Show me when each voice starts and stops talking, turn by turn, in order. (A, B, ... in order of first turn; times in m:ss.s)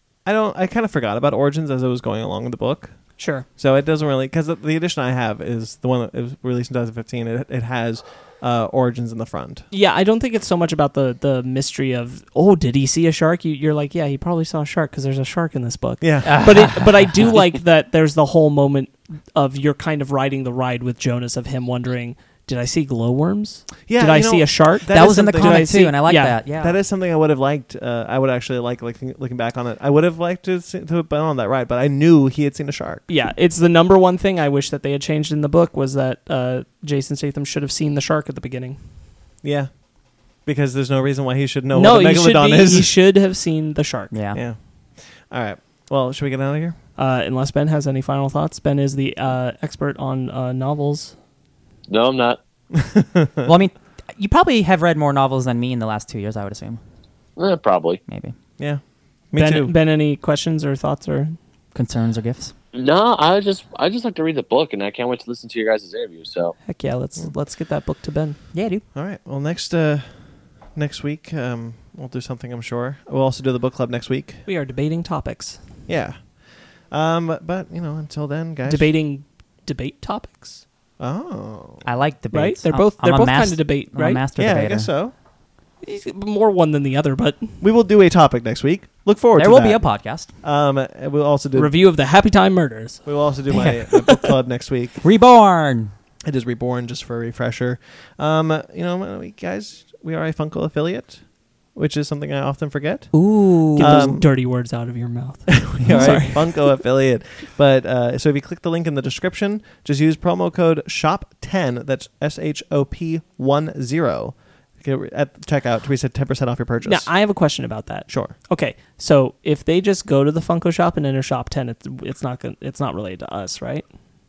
0:00.2-0:09.6 A
0:03.2-0:03.4 B
0:09.7-0:26.4 B
0:16.0-0:16.8 A
0:16.2-0:17.3 C
0:23.9-0:25.9 A
0:24.9-0:26.8 C
0:26.6-0:33.0 A
0:33.1-0:38.8 B
0:39.4-0:39.8 A
0:40.4-0:43.0 A
0:41.7-0:44.1 B
0:44.1-0:44.4 C
0:44.3-0:46.8 A
0:47.0-0:51.1 B
0:51.9-0:52.4 D
0:52.7-0:53.5 A
0:53.4-0:56.8 C
0:57.4-0:58.0 D
0:58.1-0:58.3 C
0:58.6-0:59.7 A
0:59.3-1:01.4 B
1:01.7-1:02.5 C
1:02.7-1:06.6 D
1:06.6-1:08.4 B
1:08.5-1:08.8 C
1:08.9-1:14.4 A
1:14.4-1:15.6 B
1:15.9-1:18.9 A
1:18.6-1:20.6 B
1:21.0-1:21.8 A
1:21.8-1:24.9 C
1:22.3-1:24.2 B
1:24.4-1:25.1 A
1:25.8-1:27.6 B
1:27.6-1:31.8 A
1:29.4-1:30.3 C
1:31.6-1:34.3 B
1:33.0-1:35.0 A
1:35.0-1:35.9 C
1:36.2-1:44.3 A
1:43.1-1:44.0 C
1:43.8-1:46.6 B
1:45.5-1:57.2 A
1:45.8-1:46.1 C
1:56.8-2:03.9 B
1:58.1-1:58.3 A